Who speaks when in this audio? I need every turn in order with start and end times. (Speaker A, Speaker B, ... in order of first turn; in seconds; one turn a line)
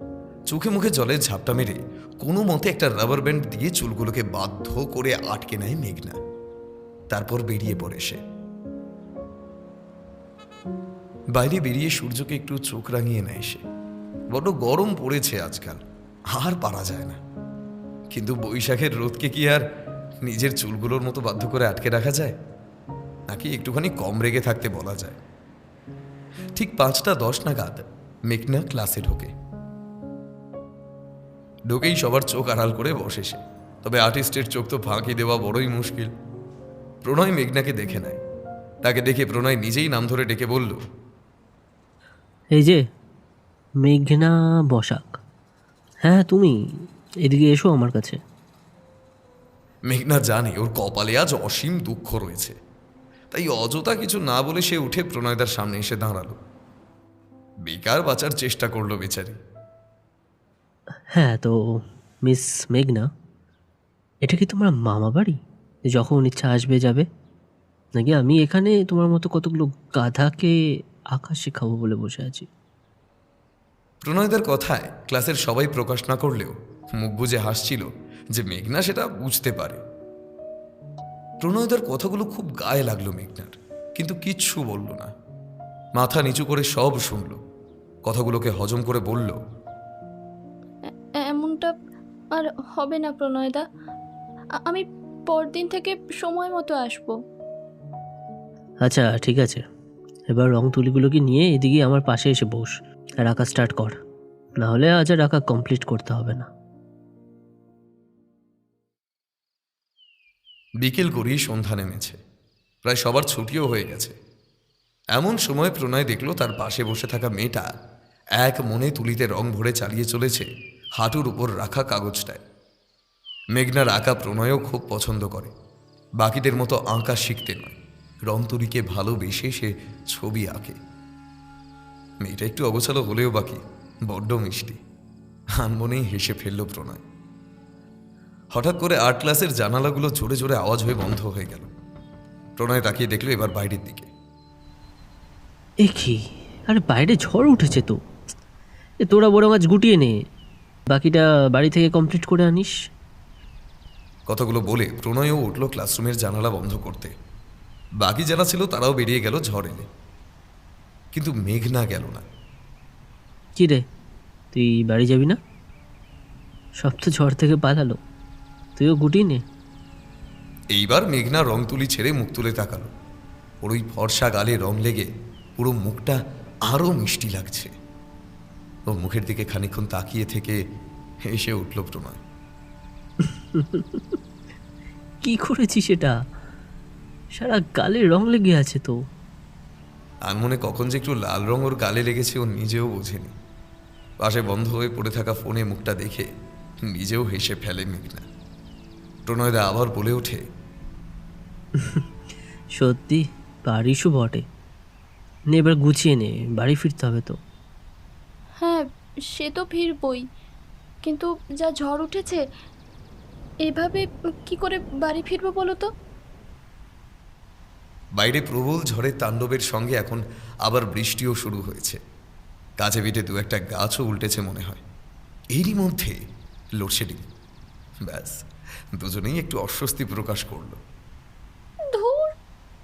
Speaker A: 0.5-6.2
Speaker A: 7.1-8.2
Speaker A: 11.3-13.6
Speaker A: 14.3-17.2
Speaker A: 18.1-19.6
Speaker A: 20.2-22.4
Speaker A: 23.3-25.2
Speaker A: 26.6-29.3
Speaker A: 31.7-36.1
Speaker A: 37.0-38.2
Speaker A: 38.8-40.8
Speaker B: 42.5-42.8
Speaker B: 43.8-45.2
Speaker B: 46.0-48.2
Speaker A: 49.9-52.5
Speaker A: 53.3-56.4
Speaker A: 57.6-59.4
Speaker B: 61.1-63.1
Speaker B: 64.2-65.4
Speaker B: 65.9-67.1
Speaker B: 67.9-70.5
Speaker B: 71.1-72.5
Speaker A: 74.0-79.8
Speaker A: 81.4-85.1
Speaker A: 86.0-87.4
Speaker A: 88.0-89.4
Speaker C: 91.2-91.7
Speaker C: 92.3-93.6
Speaker C: 94.6-97.1
Speaker B: 98.8-99.6
Speaker B: 100.3-104.0
Speaker B: 104.6-106.5
Speaker A: 110.8-112.2
Speaker A: 112.8-114.2
Speaker A: 115.1-117.7
Speaker A: 118.4-120.5
Speaker A: 121.0-122.4
Speaker A: 123.5-125.5
Speaker A: 126.2-130.8
Speaker A: 132.2-134.8
Speaker A: 135.6-137.0
Speaker A: 138.5-141.7
Speaker A: 142.6-144.1
Speaker B: 145.8-148.0
Speaker B: 149.0-150.2
Speaker B: 150.9-152.7
Speaker A: 154.3-157.1
Speaker A: 158.0-159.9
Speaker A: 161.1-162.2
Speaker B: 163.6-163.8
Speaker B: 164.5-165.4
Speaker B: 166.8-168.0
Speaker B: 168.8-169.4
Speaker A: 170.7-172.9
Speaker A: 173.6-177.7
Speaker A: 178.9-180.6
Speaker A: 181.3-182.2
Speaker B: 183.2-184.2
Speaker B: 185.2-186.1
Speaker B: 187.3-189.0
Speaker A: 190.3-193.3
Speaker A: 194.2-196.3
Speaker A: 196.8-198.2
Speaker A: 199.3-200.4
Speaker B: 201.8-202.0
Speaker B: 202.7-204.4
Speaker B: 205.5-207.4
Speaker C: 208.6-210.2
Speaker C: 211.0-212.4
Speaker C: 213.7-215.9
Speaker A: 218.2-222.0
Speaker A: 222.8-224.8
Speaker A: 225.5-226.2
Speaker A: 226.8-227.3
Speaker A: 228.0-228.4
Speaker A: 228.9-230.8
Speaker C: 231.9-232.3